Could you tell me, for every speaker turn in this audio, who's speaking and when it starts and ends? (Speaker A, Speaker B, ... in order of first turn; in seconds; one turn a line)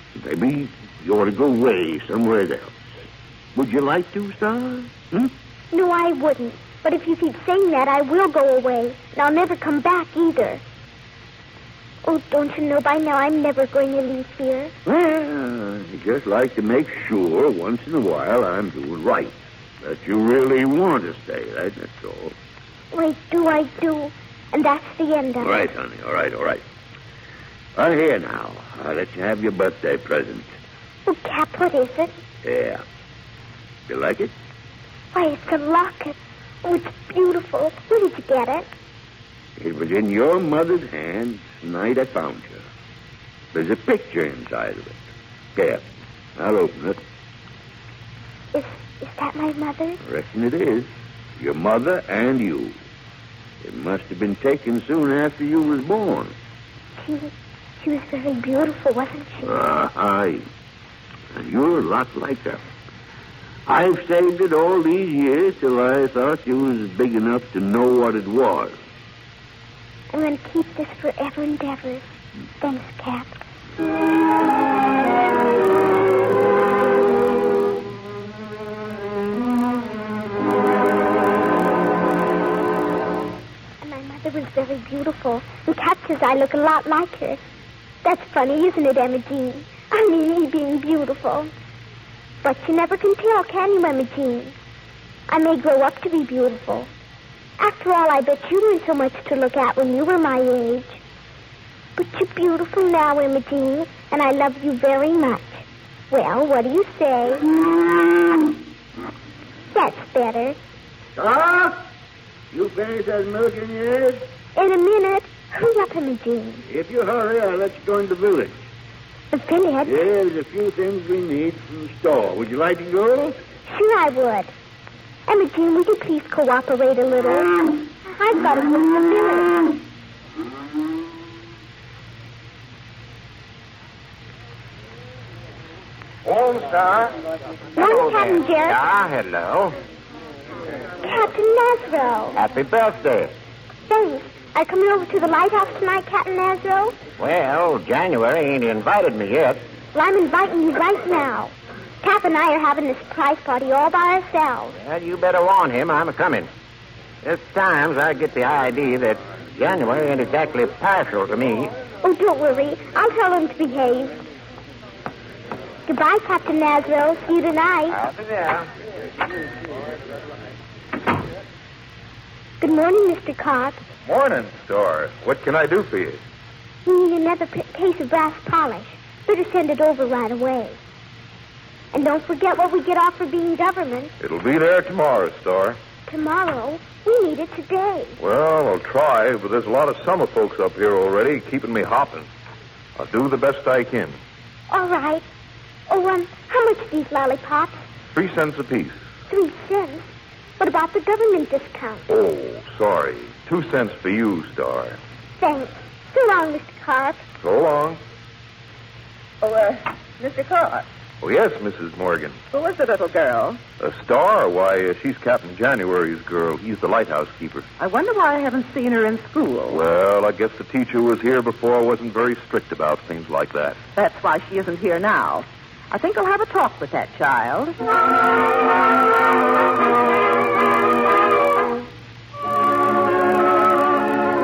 Speaker A: 0.2-2.9
Speaker A: 3.5-5.3
Speaker B: 5.7-10.6
Speaker B: 12.0-14.7
Speaker A: 14.9-22.4
Speaker B: 22.9-25.7
Speaker A: 25.4-26.6
Speaker A: 27.8-30.5
Speaker B: 31.1-32.2
Speaker A: 32.4-32.8
Speaker A: 33.9-34.3
Speaker B: 35.1-38.7
Speaker A: 39.6-42.6
Speaker A: 43.5-45.0
Speaker A: 45.5-45.9
Speaker A: 46.4-47.0
Speaker B: 48.5-50.0
Speaker A: 50.0-52.8
Speaker A: 53.6-56.4
Speaker B: 57.0-59.5
Speaker A: 59.4-60.5
Speaker A: 61.3-62.6
Speaker A: 63.7-68.8
Speaker B: 70.1-72.1
Speaker B: 72.6-73.4
Speaker B: 83.8-87.4
Speaker B: 88.0-91.5
Speaker B: 92.4-94.5
Speaker B: 95.3-96.9
Speaker B: 97.6-101.0
Speaker B: 102.0-107.5
Speaker A: 107.9-108.4
Speaker B: 109.7-110.6
Speaker A: 111.2-111.8
Speaker A: 112.5-114.2
Speaker B: 114.5-116.6
Speaker A: 116.7-118.6
Speaker B: 119.3-120.0
Speaker A: 119.8-123.4
Speaker B: 123.7-124.5
Speaker B: 125.3-129.6
Speaker C: 136.3-137.2
Speaker B: 137.8-138.8
Speaker C: 137.8-139.8
Speaker B: 141.0-142.4
Speaker C: 142.3-143.3
Speaker B: 143.9-147.0
Speaker C: 147.2-149.7
Speaker B: 149.9-154.8
Speaker C: 154.8-156.5
Speaker C: 157.2-161.7
Speaker B: 162.0-164.2
Speaker B: 165.9-168.0
Speaker D: 168.0-168.7
Speaker B: 172.6-173.8
Speaker D: 174.1-176.2
Speaker B: 176.8-180.8
Speaker B: 181.9-184.1
Speaker D: 184.2-185.8
Speaker B: 186.1-188.2
Speaker D: 188.2-192.3
Speaker D: 193.0-194.2
Speaker B: 194.7-195.2
Speaker B: 195.9-197.8
Speaker D: 198.1-199.0
Speaker B: 199.3-200.1
Speaker B: 200.6-202.1
Speaker D: 202.1-205.0
Speaker B: 205.4-207.2
Speaker D: 207.4-208.0
Speaker E: 209.4-210.9
Speaker D: 211.2-212.4
Speaker E: 212.5-213.6
Speaker D: 213.8-217.7
Speaker E: 217.8-219.8
Speaker D: 219.7-223.8
Speaker E: 223.9-227.8